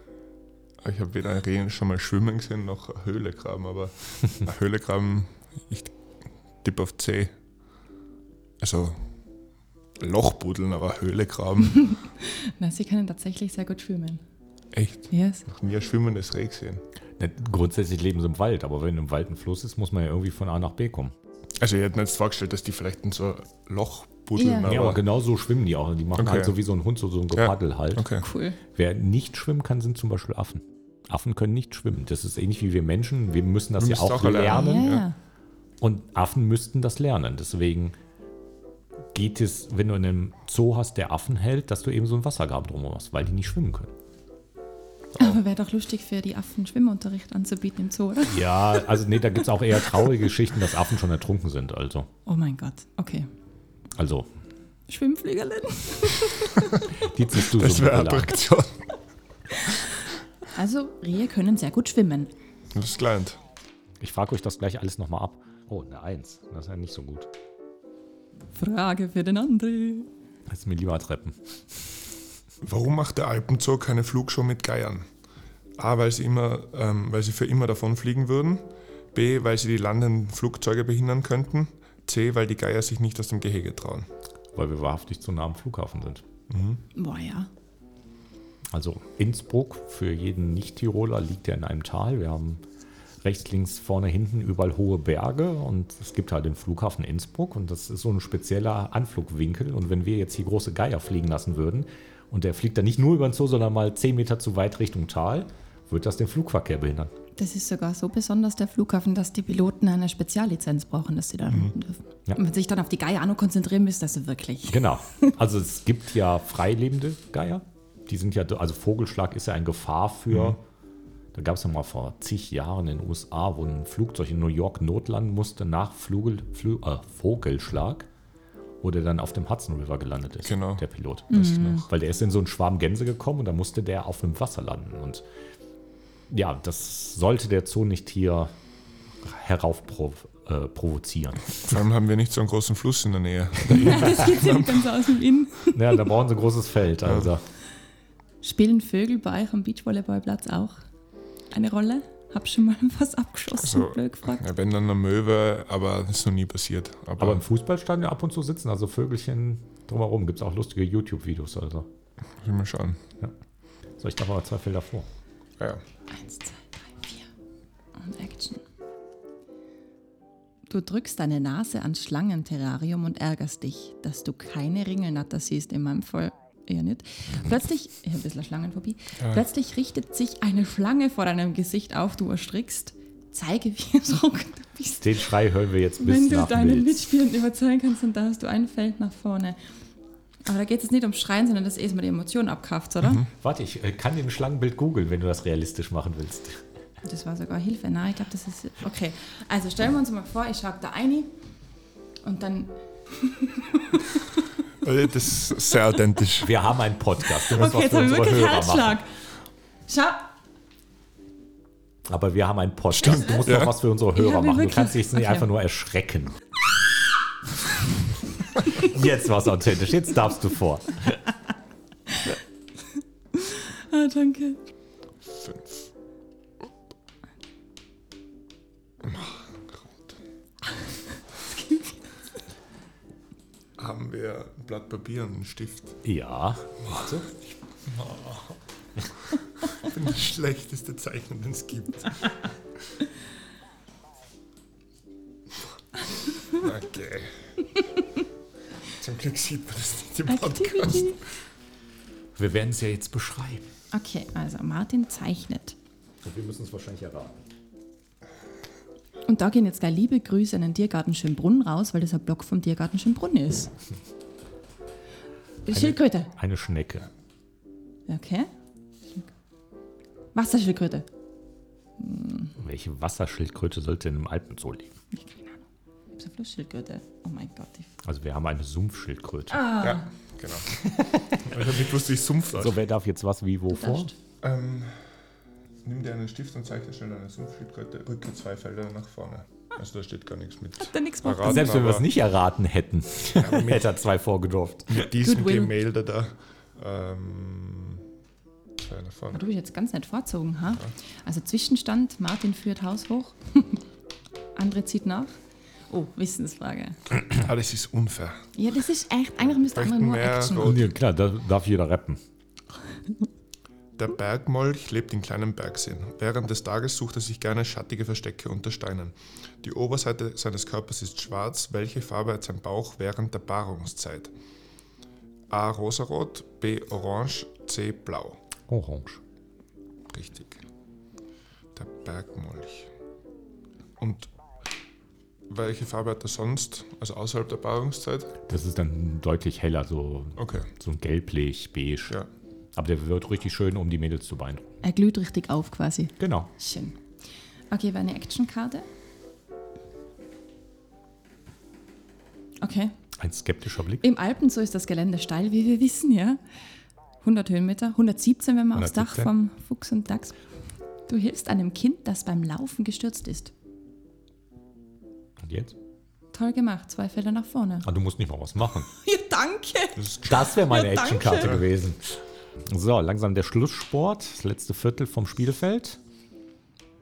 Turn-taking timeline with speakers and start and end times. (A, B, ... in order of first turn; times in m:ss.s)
0:00.8-0:05.9 A
0:06.6-0:07.3 A
0:08.6-0:09.0 A
0:10.0-0:11.9 A
0:11.8-0:14.2 B
0:14.7-0:16.8 A
0:15.1-0:15.5 B
0:17.2-0:21.1 C
0:21.6-0:25.0 A
0:24.4-0:24.8 B
0:24.6-0:28.1 C
0:26.2-0:26.6 A
0:27.3-0:28.2 A
0:28.2-0:28.6 B
0:28.7-0:34.9 C
0:33.8-0:35.0 A
0:34.5-0:35.2 B
0:35.8-0:38.0 C
0:39.1-0:43.9 C
0:45.2-0:48.8 B
0:48.3-0:52.1 C
0:52.3-0:53.3 B
0:54.0-0:54.3 C
0:54.9-0:57.0 B
0:57.0-0:58.4 C
0:57.4-0:58.8 A
0:59.6-0:59.8 B
1:00.5-1:02.3 B
1:02.7-1:03.4 A
1:04.0-1:07.3 C
1:08.6-1:10.1 B
1:10.5-1:11.5 C
1:12.6-1:15.1 A
1:15.8-1:24.1 A
1:24.5-1:26.2 C
1:26.5-1:26.8 A
1:27.0-1:27.5 B
1:28.7-1:32.6 C
1:33.2-1:47.1 C
1:47.4-1:55.3 B
1:54.7-2:00.6 C
2:00.3-2:00.6 A
2:01.3-2:08.1 C
2:08.8-2:15.2 C
2:10.5-2:10.8 A
2:11.3-2:11.8 B
2:11.4-2:11.9 A
2:16.3-2:18.5 C
2:19.2-2:21.8 C
2:21.6-2:25.0 A
2:23.7-2:26.0 B
2:25.7-2:27.4 C
2:27.1-2:27.3 A
2:28.4-2:30.8 B
2:31.5-2:34.5 B
2:33.6-2:37.4 A
2:37.2-2:41.9 C
2:42.4-2:43.0 A
2:44.0-2:45.1 C
2:46.1-2:47.3 B
2:48.0-2:48.6 B
2:50.7-3:05.2 B
3:05.0-3:07.1 C
3:06.0-3:09.6 B
3:10.4-3:13.3 B
3:13.4-3:16.6 C
3:17.0-3:21.3 B
3:22.2-3:24.4 B
3:24.8-3:26.6 A
3:26.4-3:29.0 C
3:27.4-3:29.1 B
3:29.9-3:30.3 B
3:32.1-3:36.4 C
3:33.0-3:33.8 A
3:34.1-3:35.5 B
3:38.7-3:41.2 C
3:42.1-3:42.4 B
3:43.3-3:44.6 B
3:45.3-3:45.9 A
3:49.0-3:50.1 A
3:51.4-3:52.2 B
3:53.8-3:56.0 A
3:56.0-3:57.3 C
3:56.8-3:58.6 A
3:59.6-4:02.5 A
4:06.5-4:07.3 A
4:08.9-4:11.1 A
4:10.3-4:11.2 B
4:12.4-4:13.7 C
4:13.9-4:15.8 B
4:16.2-4:17.4 C
4:19.3-4:23.7 B
4:25.7-4:26.3 B
4:25.7-4:27.1 C
4:28.1-4:28.5 B
4:30.3-4:31.1 B
4:32.0-4:32.5 B
4:32.6-4:34.9 C
4:35.1-4:35.6 B
4:36.2-4:37.9 B
4:38.0-4:39.7 C
4:39.5-4:40.1 B
4:39.8-4:42.8 A
4:40.7-4:41.6 C
4:42.6-4:44.1 C
4:43.7-4:44.1 B
4:44.4-4:44.9 A
4:45.8-4:52.1 A
4:50.8-4:51.7 B
4:51.4-4:55.0 C
4:53.4-4:53.9 A
4:54.9-4:58.0 A
4:55.2-4:55.7 B
4:58.8-4:59.4 A
4:59.3-5:03.8 B
5:04.6-5:05.4 B
5:05.9-5:07.0 B
5:07.3-5:08.5 A
5:08.6-5:10.8 B
5:09.7-5:10.9 A
5:10.6-5:12.2 C
5:14.0-5:24.3 A
5:25.5-5:28.4 A
5:28.7-5:29.2 C
5:30.1-5:30.6 A
5:31.8-5:32.9 A
5:34.0-5:34.3 A
5:35.5-5:38.4 A
5:38.5-5:42.2 C
5:40.4-5:40.7 A
5:42.8-5:44.8 C
5:44.8-5:47.0 B
5:46.2-5:46.5 C
5:47.7-5:48.9 B
5:52.6-5:52.9 B
5:53.2-5:54.0 C
5:54.0-5:56.4 B
5:57.2-6:00.4 B
5:58.8-5:59.3 C
6:01.1-6:03.5 B
6:05.4-6:05.8 C
6:06.3-6:07.9 B
6:07.8-6:08.9 C
6:08.9-6:11.6 B
6:10.0-6:10.6 A
6:10.3-6:16.0 C
6:11.4-6:11.6 A